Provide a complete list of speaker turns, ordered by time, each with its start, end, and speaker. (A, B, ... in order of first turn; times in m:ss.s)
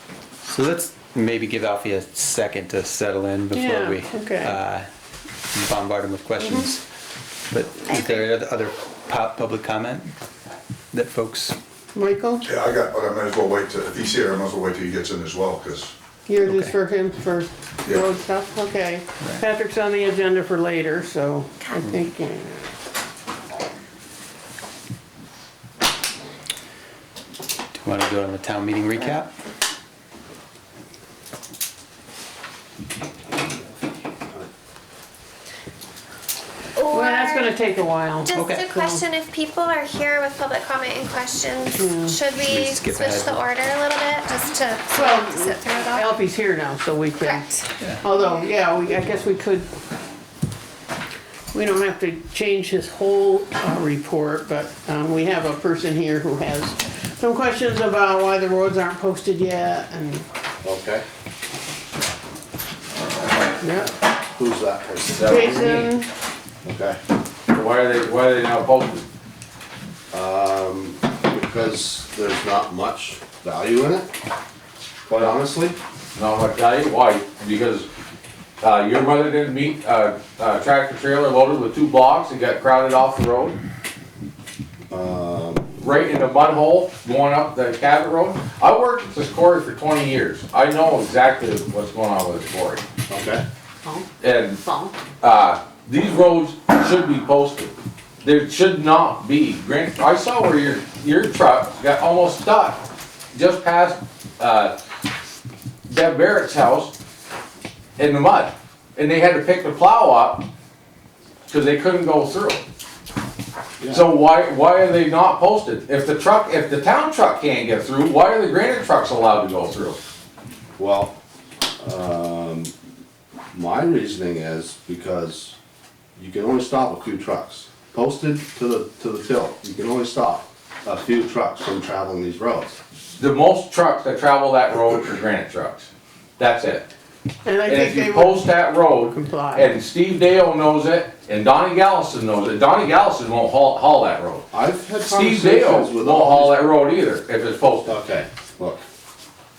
0:00.4-0:04.8 A
0:03.5-0:04.5 B
0:05.5-0:06.8 A
0:06.4-0:06.7 B
0:07.5-0:10.1 A
0:07.9-0:08.3 C
0:10.9-0:11.6 A
0:11.9-0:12.4 B
0:12.5-0:15.9 D
0:16.3-0:22.6 B
0:16.4-0:16.7 A
0:21.6-0:21.9 C
0:27.7-0:29.3 A
0:36.8-0:37.6 C
0:36.9-0:39.0 B
0:38.2-0:46.2 C
0:38.4-0:38.7 A
0:41.7-0:42.2 B
0:42.4-0:43.4 A
0:44.9-0:49.7 B
0:47.2-0:48.5 C
0:51.5-1:00.2 B
1:00.6-1:01.0 E
1:03.6-1:03.9 B
1:04.3-1:05.8 E
1:05.1-1:05.9 F
1:05.2-1:06.1 B
1:06.6-1:07.0 E
1:07.5-1:09.0 F
1:10.1-1:14.1 E
1:15.1-1:15.8 E
1:16.1-1:17.9 F
1:18.6-1:23.6 F
1:24.9-1:25.7 E
1:25.8-1:32.8 F
1:33.1-1:33.4 E
1:34.2-1:34.6 F
1:34.6-1:34.9 B
1:35.2-1:42.8 F
1:43.3-1:44.8 F
1:45.9-1:46.9 F
1:48.0-1:50.5 F
1:51.5-1:52.6 F
1:53.8-1:54.0 E
1:53.9-2:00.0 F
2:00.8-2:01.1 E
2:01.8-2:02.7 E
2:03.5-2:05.6 E
2:06.2-2:12.8 E
2:13.2-2:16.9 F
2:17.4-2:19.7 B
2:17.6-2:24.4 F
2:24.5-2:26.7 E
2:25.0-2:27.9 F
2:27.8-2:28.8 E